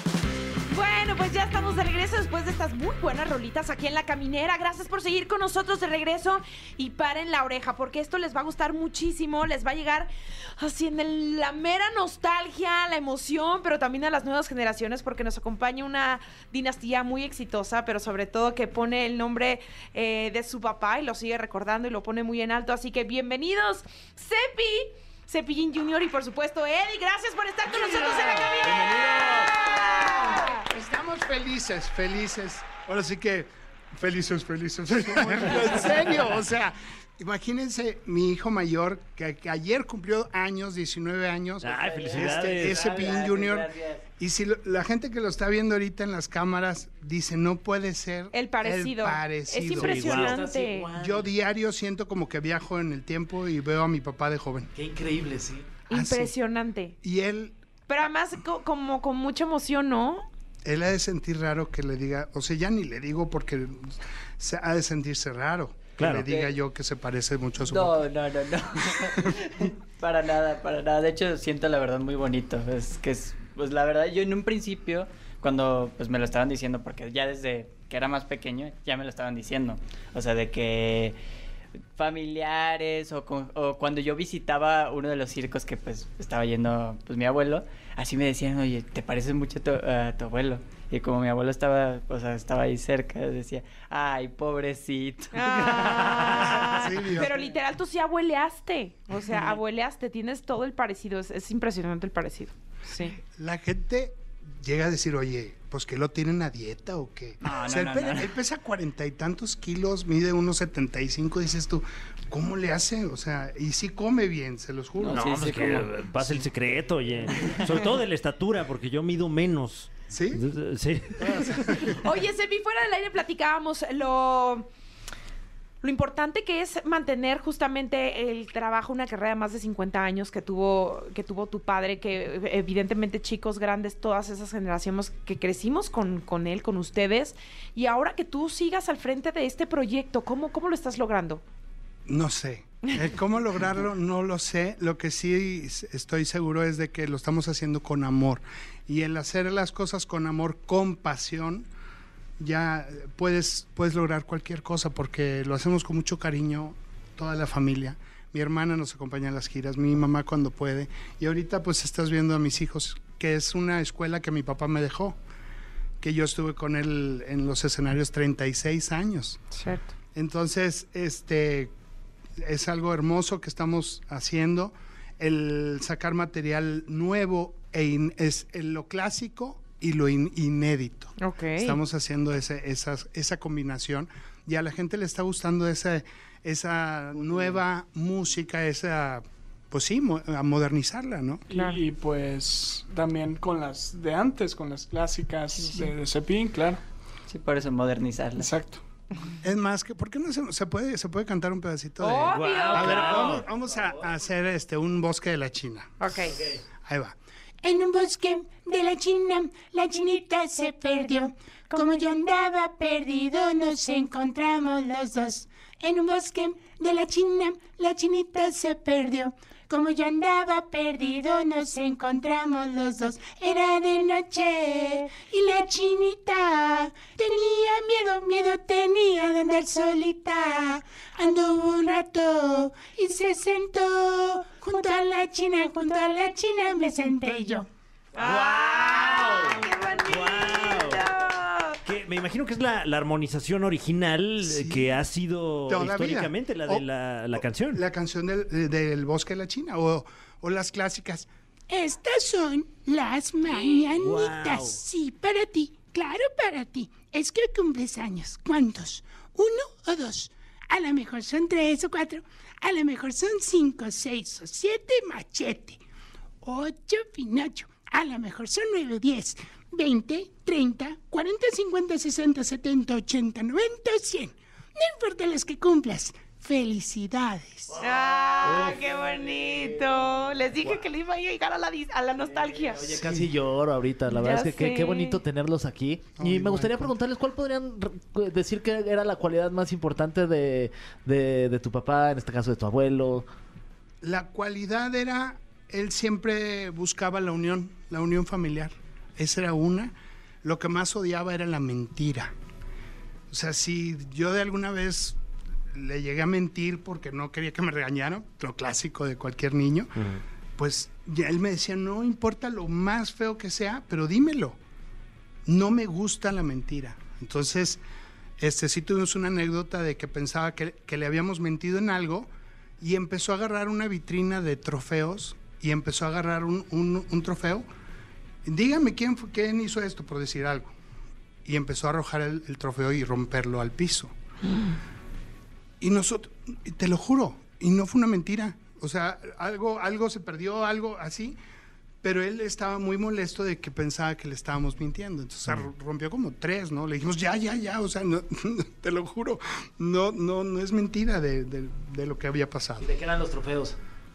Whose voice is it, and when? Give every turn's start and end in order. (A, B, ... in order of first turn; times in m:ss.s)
0:00.7-0:30.6 A
0:27.7-0:50.1 B
0:41.6-0:42.8 C
0:41.7-0:44.0 D
0:48.3-0:50.9 A
0:49.7-0:50.4 C
0:50.1-0:51.3 E
0:50.9-0:54.7 B
0:54.7-0:55.7 E
0:55.9-0:57.0 A
0:55.9-0:56.3 B
0:57.0-0:57.6 B
0:57.9-1:00.2 A
1:00.6-1:08.0 B
1:06.0-1:06.3 C
1:06.2-1:06.5 D
1:07.6-1:21.2 D
1:09.1-1:09.4 B
1:22.0-1:35.4 D
1:35.3-1:43.2 A
1:35.4-1:36.6 C
1:36.6-1:37.3 B
1:43.2-1:56.4 B
1:47.4-1:48.3 D
1:55.0-1:55.9 D
1:55.0-2:02.0 C
2:00.1-2:00.4 B
2:01.4-2:01.8 B
2:01.8-2:04.7 A
2:05.8-2:21.4 A
2:22.0-2:31.7 B
2:32.4-2:45.2 B
2:46.0-2:49.4 B
2:49.5-2:49.8 A
2:50.1-2:51.7 B
2:52.4-3:11.4 B
3:01.2-3:01.8 A
3:11.5-3:11.8 A
3:11.5-3:16.8 F
3:17.3-3:18.5 D
3:18.4-3:18.8 F
3:19.4-3:25.9 B
3:22.0-3:23.4 A
3:22.3-3:23.5 C
3:26.0-3:26.4 A
3:26.8-3:27.2 B
3:27.6-3:57.7 G
3:58.1-4:01.1 C
3:58.1-4:01.8 A
4:01.8-4:07.8 C
4:04.4-4:05.0 B
4:05.7-4:06.8 B
4:07.4-4:11.3 B
4:11.7-4:25.8 G
4:14.0-4:14.8 C
4:26.4-4:37.6 G
4:37.8-4:43.0 A
4:38.4-4:38.8 E
4:42.7-4:53.3 E
4:44.1-4:45.2 A
4:46.2-4:46.9 B
4:54.0-5:02.3 B
5:03.3-5:05.2 B
5:05.7-5:14.6 B
5:15.4-5:17.8 B
5:18.4-5:27.6 B
5:28.4-5:30.7 B
5:31.4-5:34.1 B
5:35.8-5:41.4 B
5:42.0-5:52.9 B
5:52.8-5:53.8 E